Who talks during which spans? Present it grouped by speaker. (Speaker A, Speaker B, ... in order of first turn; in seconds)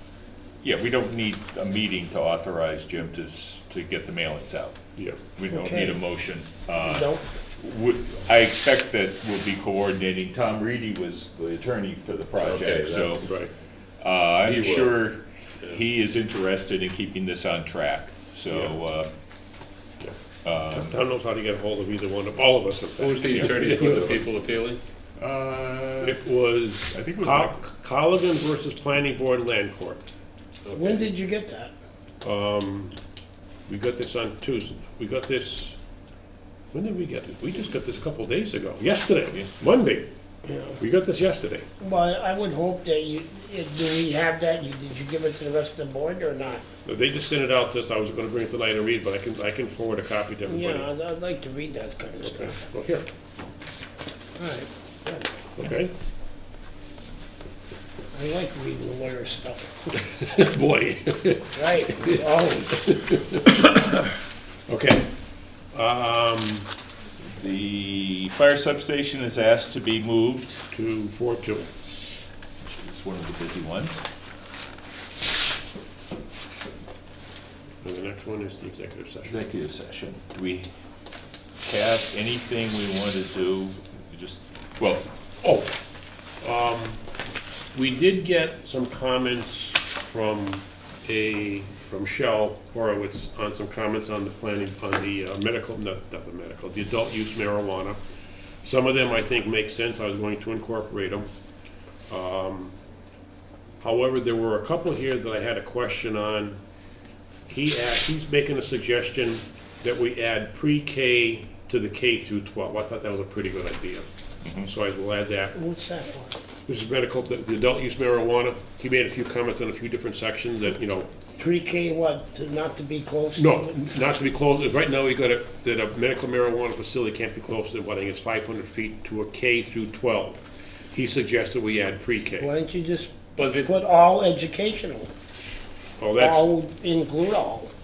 Speaker A: 0.6-4.8, 5.4-13.4, 14.0-19.1, 20.4-21.0, 23.3-24.1, 25.2-26.2, 26.9-27.6, 39.3-39.6, 67.3-70.6, 72.6-74.0, 79.2-80.7, 81.6-85.1, 114.4-114.7
Speaker B: 5.5-6.0, 6.8-7.3, 30.7-31.7, 40.5-40.8, 41.8-46.7, 50.5-52.6, 54.4-55.2, 58.1-60.0, 61.5-62.9, 115.5-116.4, 121.4-123.7, 132.3-135.1, 136.2-137.7
Speaker C: 12.4-13.3, 14.4-14.9, 23.0-24.8, 30.6-31.1, 133.4-133.7
Speaker D: 13.2-13.5, 20.7-24.3, 26.0-30.0, 32.2-33.0, 33.7-35.8, 36.7-40.1, 40.8-41.7, 46.9-50.9, 52.2-53.1, 55.6-55.9, 60.0-65.1, 65.7-66.7, 70.7-71.7, 77.8-79.4, 85.4-85.7, 86.4-87.0, 87.7-98.0, 98.6-101.3, 102.1-102.8, 103.8-106.6, 107.5-114.1, 114.6-115.6, 116.7-121.1, 123.4-130.4, 130.9-132.5, 136.0-136.5